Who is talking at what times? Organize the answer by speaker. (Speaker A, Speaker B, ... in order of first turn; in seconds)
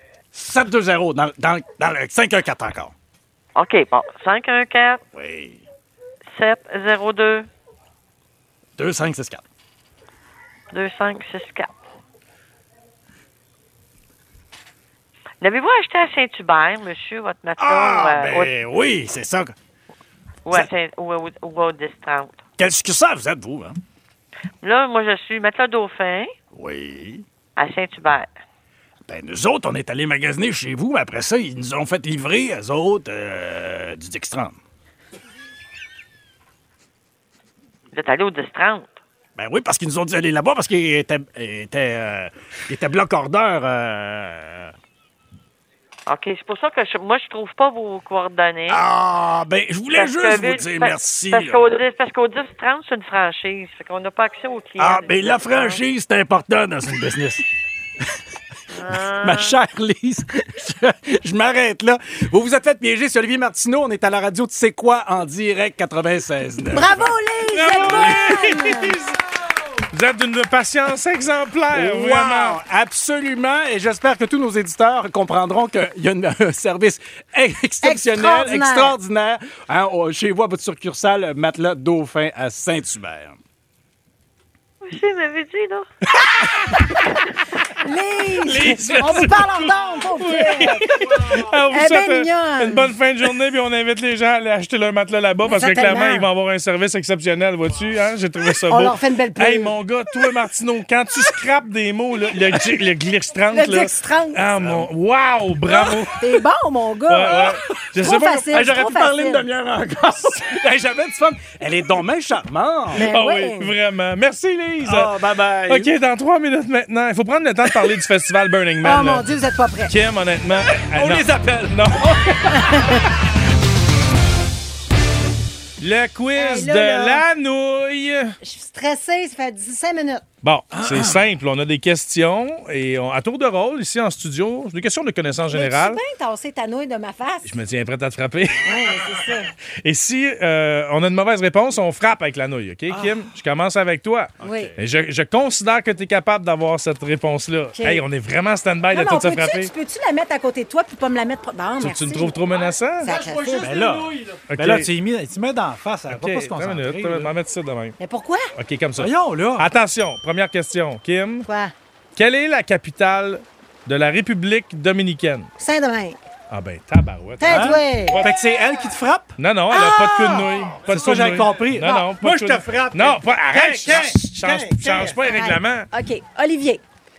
Speaker A: 0.3-2.9, 5.1-5.6, 8.8-9.4, 17.6-19.6, 22.6-23.8, 26.5-27.2, 29.1-34.6, 39.4-44.7, 48.7-51.8, 54.8-57.5, 58.9-67.1, 67.8-68.0, 71.7-83.4, 104.6-104.9, 107.7-113.1, 114.8-115.9, 120.7-122.8, 130.7-131.2, 142.9-143.2, 144.4-144.8, 153.0-157.3, 159.0-159.7, 167.5-175.2
Speaker B: 3.5-5.0, 6.3-7.5, 10.7-11.7, 15.4-18.5, 20.4-22.4, 24.6-26.3, 27.6-28.3, 37.9-39.0, 46.1-48.8, 49.9-55.8, 58.7-59.6, 84.8-85.9
Speaker C: 66.7-69.0, 77.8-79.0, 86.2-86.8, 87.7-92.9, 95.4-96.3, 98.7-99.8, 103.5-104.5, 105.7-109.5, 112.9-113.7, 118.8-119.9, 122.5-123.0, 126.3-127.2, 128.4-130.2, 135.5-137.6, 138.6-139.5, 144.4-144.7, 147.7-148.1, 148.9-152.4, 153.0-153.9, 158.0-158.5, 161.5-161.7, 165.6-166.2, 167.4-168.2, 169.7-170.5, 175.2-176.8
Speaker D: 67.5-69.2, 69.9-72.6, 88.4-106.2, 107.1-108.5, 113.0-115.1, 115.7-119.3, 119.9-122.7, 125.8-128.4, 130.4-136.0, 137.5-139.1, 139.8-149.7, 151.8-153.1, 154.5-154.9, 156.1-158.0, 158.6-161.5, 162.2-165.5, 166.5-168.3, 169.4-175.9